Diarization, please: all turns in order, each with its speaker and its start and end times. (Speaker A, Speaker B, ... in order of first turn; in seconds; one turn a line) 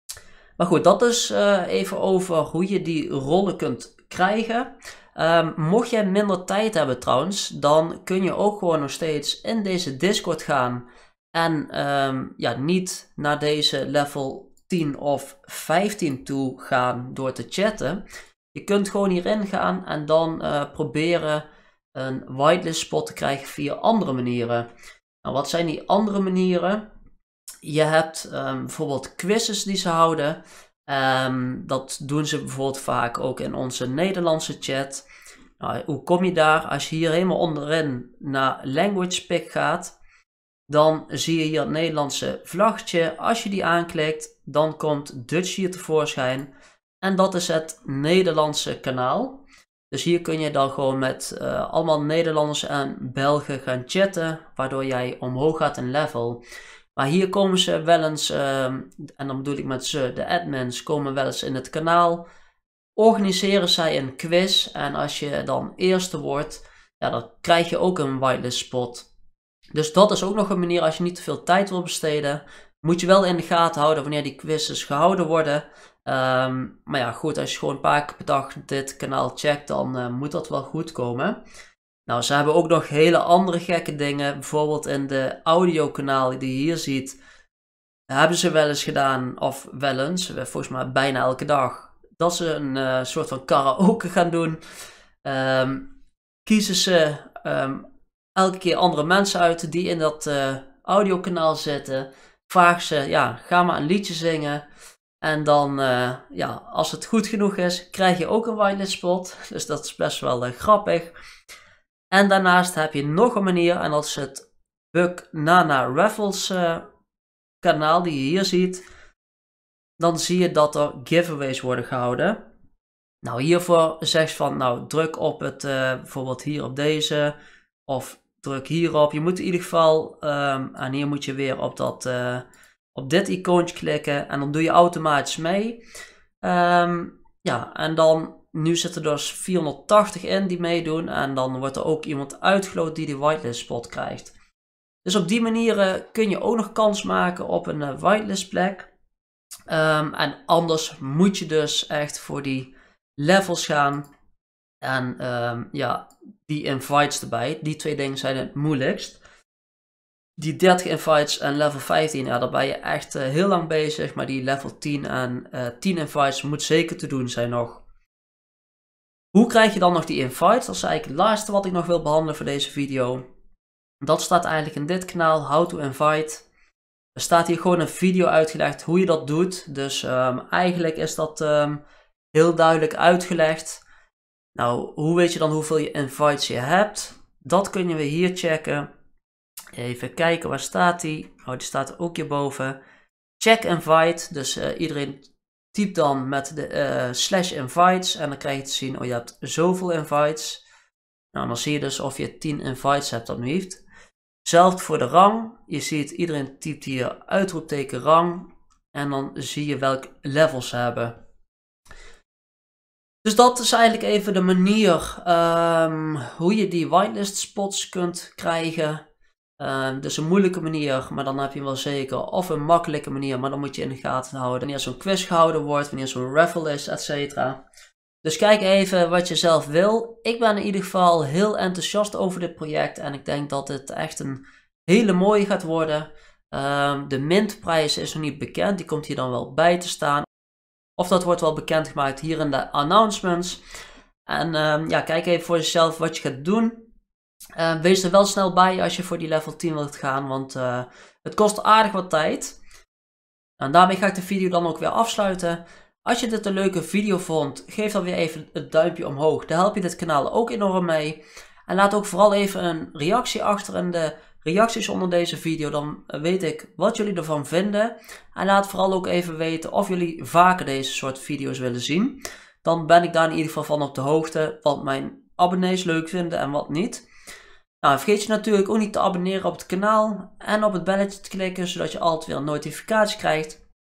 Speaker A: 0.6-18.0
Speaker A: 18.5-24.7
Speaker A: 25.2-26.9
Speaker A: 27.6-35.0
Speaker A: 35.6-40.0
Speaker A: 40.7-46.5
Speaker A: 47.0-56.4
Speaker A: 57.0-62.2
Speaker A: 63.0-69.1
Speaker A: 69.7-81.4
Speaker A: 82.1-87.2
Speaker A: 88.1-94.6
Speaker A: 95.2-95.9
Speaker A: 96.5-97.8
Speaker A: 98.4-104.6
Speaker A: 105.2-111.1
Speaker A: 112.1-116.8
Speaker A: 117.6-118.8
Speaker A: 120.0-122.4
Speaker A: 123.2-127.4
Speaker A: 127.9-135.8
Speaker A: 136.4-144.3
Speaker A: 145.1-148.9
Speaker A: 149.7-154.1
Speaker A: 154.8-159.2
Speaker A: 160.4-167.8
Speaker A: 169.3-173.2
Speaker A: 174.0-176.5
Speaker A: 177.1-181.8
Speaker A: 182.3-183.8
Speaker A: 184.6-188.9
Speaker A: 189.7-192.8
Speaker A: 193.4-200.6
Speaker A: 201.3-203.8
Speaker A: 204.4-211.1
Speaker A: 213.2-219.1
Speaker A: 219.6-227.6
Speaker A: 228.2-240.3
Speaker A: 241.0-243.6
Speaker A: 244.2-246.9
Speaker A: 247.6-252.6
Speaker A: 253.6-277.1
Speaker A: 277.8-283.6